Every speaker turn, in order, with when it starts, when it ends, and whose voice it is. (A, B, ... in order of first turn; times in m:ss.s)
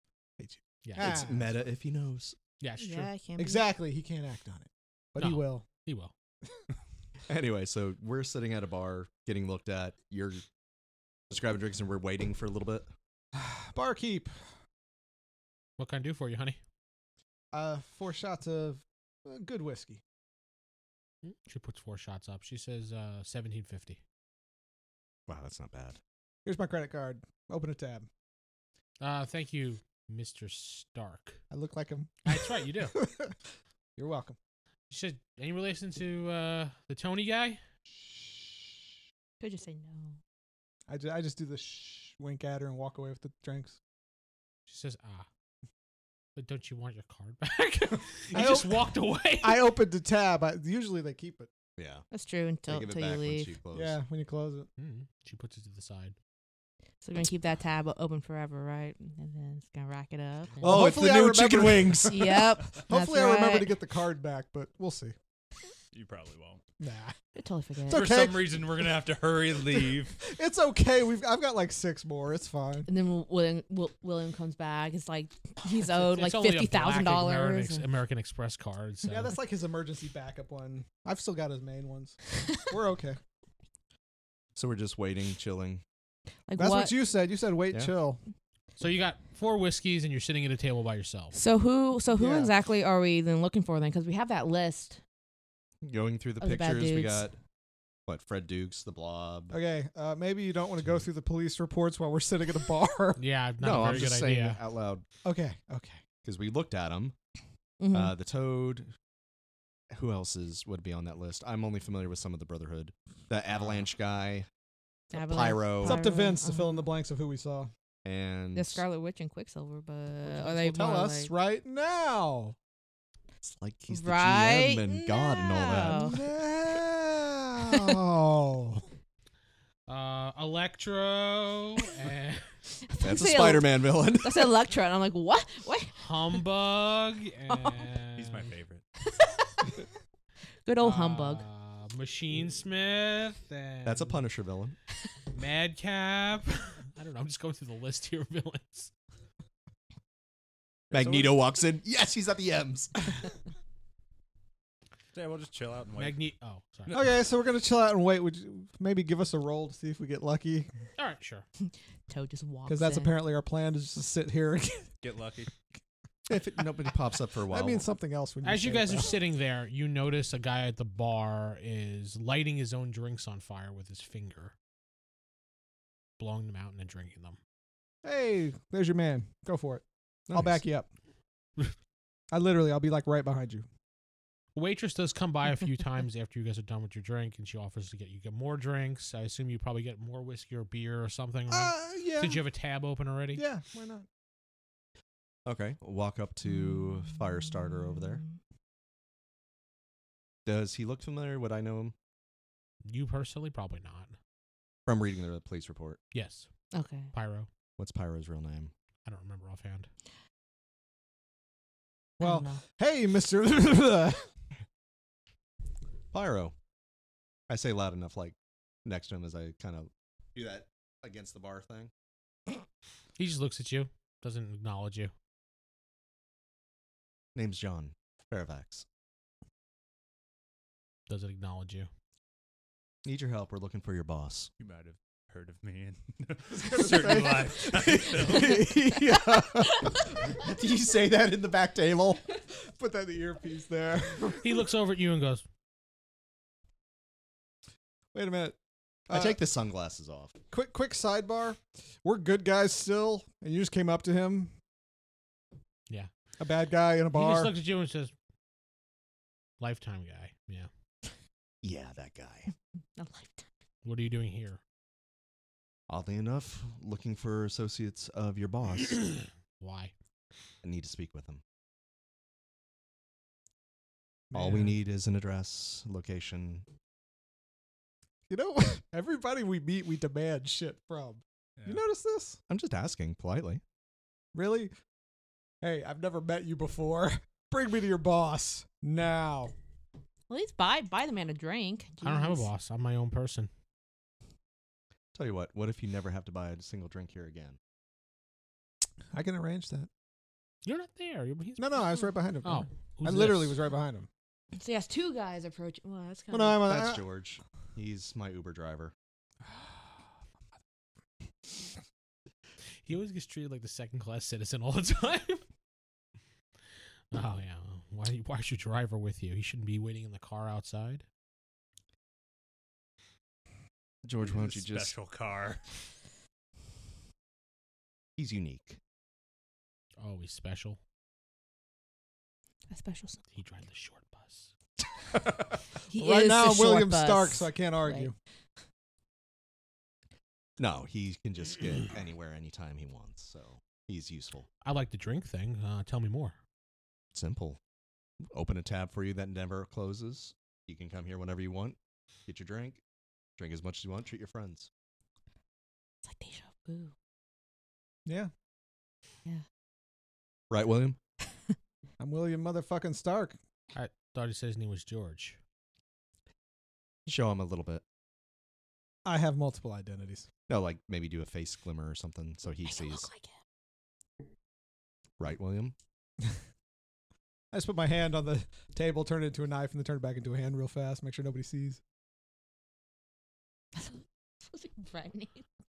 0:00.4-0:01.5 A
0:00.8-0:01.2 B
0:01.0-0:02.4 C
0:02.6-0:03.1 B
0:02.8-0:03.7 D
0:03.4-0:05.6 A
0:05.2-0:06.1 B
0:07.3-0:10.4 C
0:11.3-0:12.9 C
0:13.3-0:14.3 A
0:15.8-0:16.6 B
0:17.5-0:20.0 A
0:21.2-0:24.0 B
0:25.3-0:26.0 C
0:26.4-0:28.1 A
0:29.0-0:31.4 B
0:31.5-0:33.4 A
0:32.2-0:33.0 B
0:34.0-0:34.4 A
0:34.9-0:37.6 B
0:37.9-0:38.8 A
0:39.4-0:40.2 D
0:40.9-0:43.8 A
0:44.7-0:45.3 B
0:46.4-0:49.7 B
0:48.3-0:51.5 A
0:51.8-0:52.0 C
0:52.1-0:53.5 D
0:52.7-0:54.0 C
0:53.7-0:54.7 A
0:54.8-0:56.1 B
0:57.0-1:00.9 D
1:00.6-1:02.6 C
1:00.6-1:05.1 A
1:02.0-1:03.8 D
1:05.9-1:06.6 E
1:06.8-1:07.2 A
1:07.4-1:08.1 D
1:07.9-1:08.9 A
1:07.9-1:10.2 E
1:09.7-1:12.9 A
1:12.9-1:17.9 D
1:16.0-1:19.3 B
1:19.0-1:23.2 A
1:24.5-1:25.8 C
1:26.5-1:26.9 D
1:26.6-1:28.2 A
1:28.8-1:31.4 B
1:31.3-1:35.0 D
1:32.1-1:32.5 A
1:35.8-1:37.4 C
1:36.4-1:37.3 D
1:38.1-1:39.6 C
1:39.5-1:43.2 A
1:43.2-1:44.6 B
1:43.6-1:45.0 C
1:45.2-1:46.0 A
1:46.2-1:47.1 C
1:47.8-1:48.1 D
1:47.9-1:48.9 C
1:49.9-1:54.5 C
1:55.1-1:56.8 D
1:55.1-1:56.0 C
1:55.8-1:57.7 A
1:58.0-1:58.8 C
1:58.5-2:01.3 D
2:00.3-2:02.5 A
2:03.4-2:06.2 C
2:03.9-2:06.2 D
2:05.9-2:08.8 A
2:09.9-2:12.5 B
2:12.9-2:15.9 D
2:13.0-2:14.5 C
2:16.0-2:18.5 B
2:17.5-2:17.8 D
2:18.2-2:18.8 E
2:19.2-2:19.7 D
2:20.6-2:21.4 D
2:20.8-2:24.2 B
2:23.8-2:24.8 C
2:25.3-2:28.9 B
2:30.9-2:33.1 C
2:30.9-2:31.4 E
2:35.1-2:36.2 E
2:36.0-2:37.1 B
2:36.9-2:40.7 A
2:41.0-2:41.4 B
2:42.1-2:43.2 D
2:42.6-2:44.9 A
2:45.0-2:45.5 E
2:46.3-2:47.9 C
2:47.5-2:49.2 A
2:48.4-2:54.5 B
2:56.2-2:57.4 B
2:58.0-3:00.9 A
3:00.3-3:00.6 C
3:02.3-3:03.7 A
3:04.5-3:13.4 B
3:11.5-3:12.4 A
3:13.3-3:14.0 A
3:15.4-3:18.2 C
3:17.1-3:18.3 D
3:20.4-3:21.9 C
3:22.8-3:24.2 B
3:24.8-3:26.0 C
3:26.1-3:26.5 B
3:26.7-3:27.1 D
3:27.1-3:27.5 B
3:27.8-3:28.7 C
3:29.0-3:29.9 B
3:32.2-3:32.6 D
3:32.2-3:34.3 A
3:36.1-3:36.5 C
3:37.5-3:41.9 C
3:43.2-3:45.1 B
3:47.3-3:48.8 C
3:51.1-3:51.9 B
3:53.0-3:54.5 C
3:54.6-3:58.7 E
3:56.5-4:00.3 A
4:00.3-4:02.2 C
4:02.5-4:04.6 A
4:04.4-4:05.4 B
4:08.1-4:08.6 A
4:09.1-4:09.4 A
4:09.1-4:10.4 C
4:10.5-4:14.5 A
4:16.4-4:17.5 A
4:17.1-4:18.1 B
4:19.6-4:20.7 B
4:21.6-4:22.5 C
4:23.0-4:23.5 D
4:23.8-4:24.6 B
4:25.9-4:29.0 C
4:29.2-4:29.9 B
4:30.6-4:31.4 C
4:34.3-4:34.8 A
4:34.3-4:36.6 C
4:38.3-4:42.4 A
4:42.5-4:43.6 C
4:44.3-4:44.7 A
4:45.6-4:49.5 A
4:50.3-4:52.5 D
4:52.0-4:53.5 B
4:55.1-4:57.6 C
4:59.1-4:59.9 A
5:00.6-5:01.8 B
5:01.6-5:04.1 A
5:02.4-5:03.6 B
5:04.5-5:06.7 D
5:06.3-5:07.0 A
5:06.6-5:08.9 C
5:12.8-5:15.4 B
5:17.1-5:21.0 B
5:24.0-5:24.9 C
5:24.2-5:25.7 E
5:28.2-5:28.8 C
5:30.0-5:30.8 B
5:32.7-5:33.2 D
5:33.3-5:34.5 B
5:35.9-5:38.1 D
5:35.9-5:38.1 A
5:40.6-5:44.5 C
5:44.6-5:46.4 B
5:47.1-5:47.6 C
5:48.2-5:52.8 C
5:53.4-5:54.7 C
5:56.0-5:56.9 D
5:58.0-5:58.3 A
6:00.5-6:01.0 C
6:02.0-6:03.4 A
6:03.7-6:05.4 B
6:07.0-6:07.8 C
6:09.0-6:10.3 A
6:10.5-6:13.1 C
6:12.6-6:13.3 D
6:15.2-6:15.7 C
6:17.5-6:21.8 A
6:23.8-6:25.4 D